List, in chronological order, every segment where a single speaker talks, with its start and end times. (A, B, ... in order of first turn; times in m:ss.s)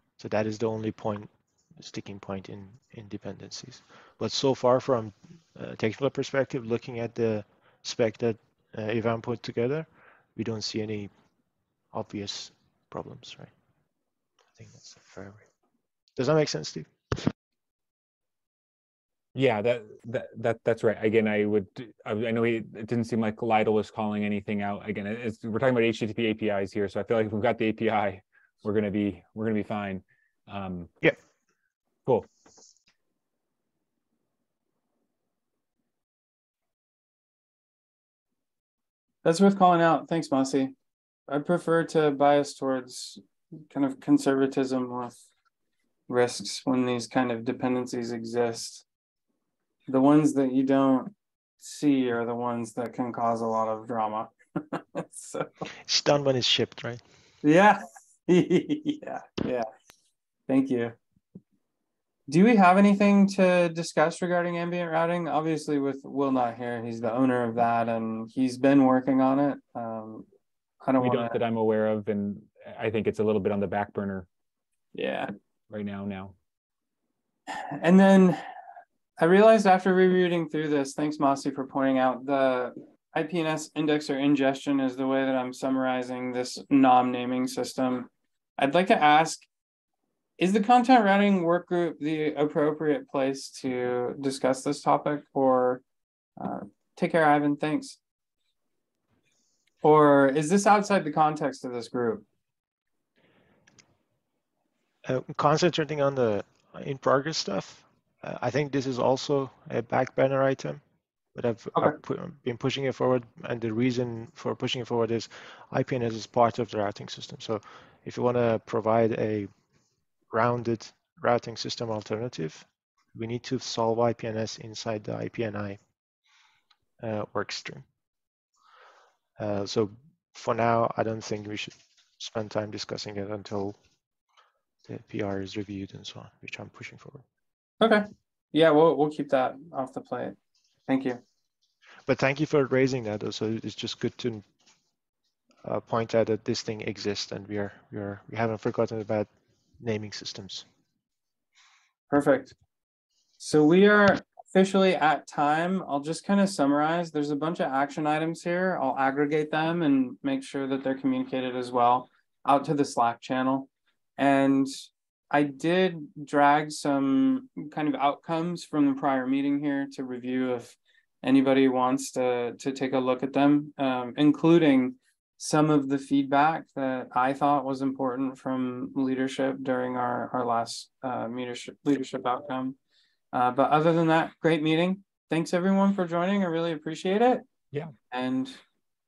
0:00.2-0:11.1 A
0:11.9-0:13.5 A
0:14.6-0:15.4 A
0:16.2-0:17.3 A
0:19.3-0:30.9 B
0:39.2-0:40.7 C
0:41.3-0:45.1 C
0:46.1-0:48.8 C
0:49.9-0:55.6 C
0:55.8-0:57.0 A
0:57.4-0:59.7 C
1:00.5-1:01.0 C
1:02.3-1:10.3 C
1:10.8-1:11.4 C
1:11.0-1:14.3 B
1:14.9-1:15.3 C
1:15.7-1:16.3 B
1:17.7-1:18.4 C
1:19.2-1:29.5 C
1:30.4-1:35.8 C
1:36.4-1:38.0 C
1:39.8-1:42.2 C
1:45.0-1:50.8 A
1:51.3-1:59.5 A
2:00.3-2:05.8 A
2:07.0-2:07.8 A
2:09.4-2:13.8 A
2:14.8-2:17.2 A
2:17.8-2:21.2 C
2:22.1-2:24.4 A
2:25.6-2:30.6 A
2:32.1-2:32.5 C
2:33.4-3:02.8 C
3:03.3-3:07.4 C
3:08.1-3:08.6 C